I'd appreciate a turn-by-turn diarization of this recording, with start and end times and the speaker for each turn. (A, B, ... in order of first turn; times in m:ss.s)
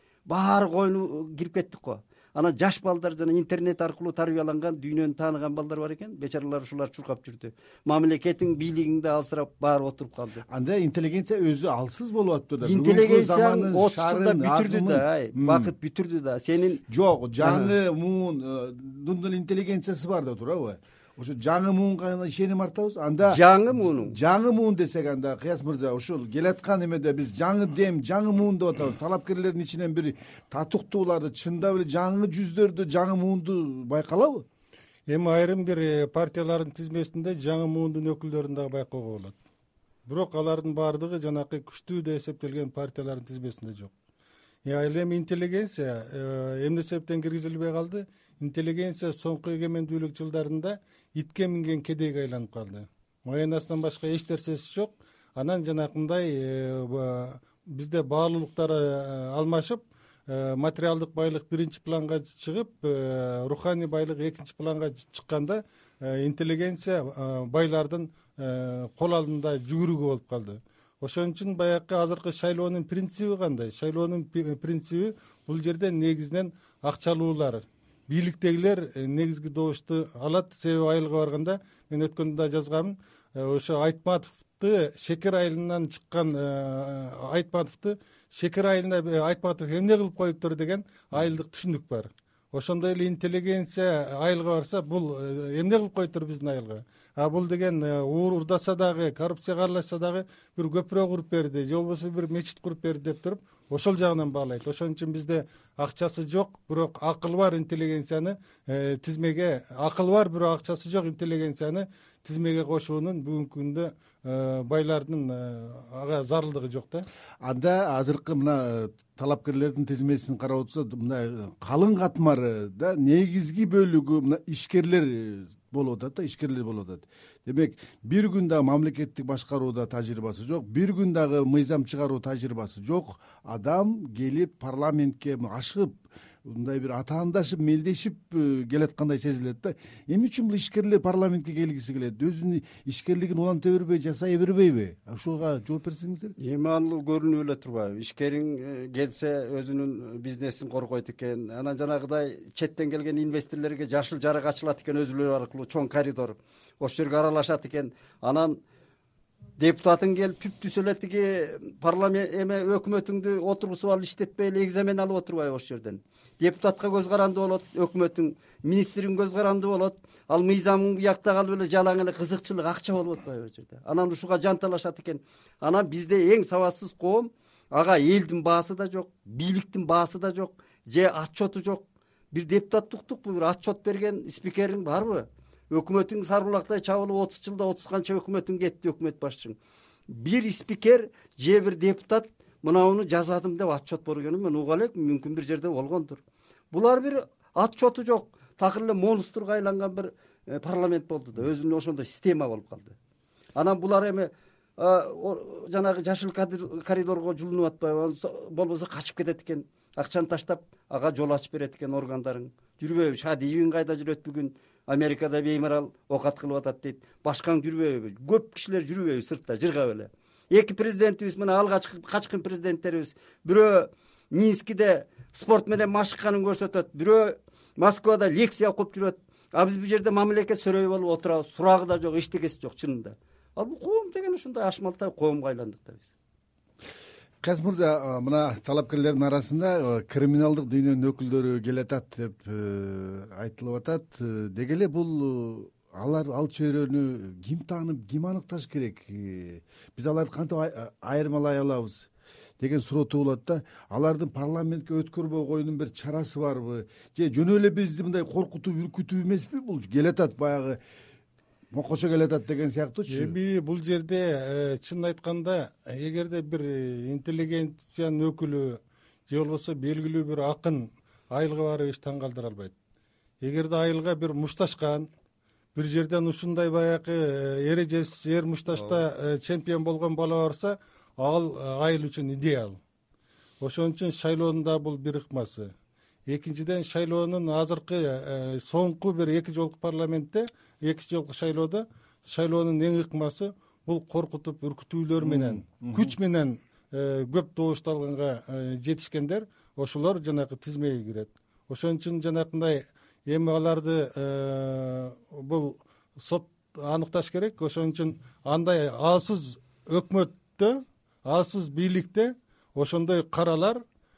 0:00.3-0:10.4 A
0:10.5-0:15.7 B
0:12.6-0:16.8 A
0:16.9-0:34.5 B
0:17.4-0:17.7 A
0:23.3-0:24.2 A
0:35.1-0:39.4 C
0:40.1-0:43.9 C
0:44.6-1:57.1 C
1:57.4-2:26.4 B
2:26.4-2:38.6 A
2:39.6-3:09.6 A
3:10.1-3:16.2 A
3:16.7-3:23.0 A
3:23.6-3:56.1 A
3:57.4-4:12.1 B
4:12.6-4:20.8 B
4:21.7-4:23.4 B
4:23.1-4:32.7 C
4:33.4-4:35.1 C
4:35.8-4:42.8 C
4:38.7-4:39.0 A
4:43.6-4:45.7 C
4:46.3-5:13.8 C
4:55.2-4:56.2 B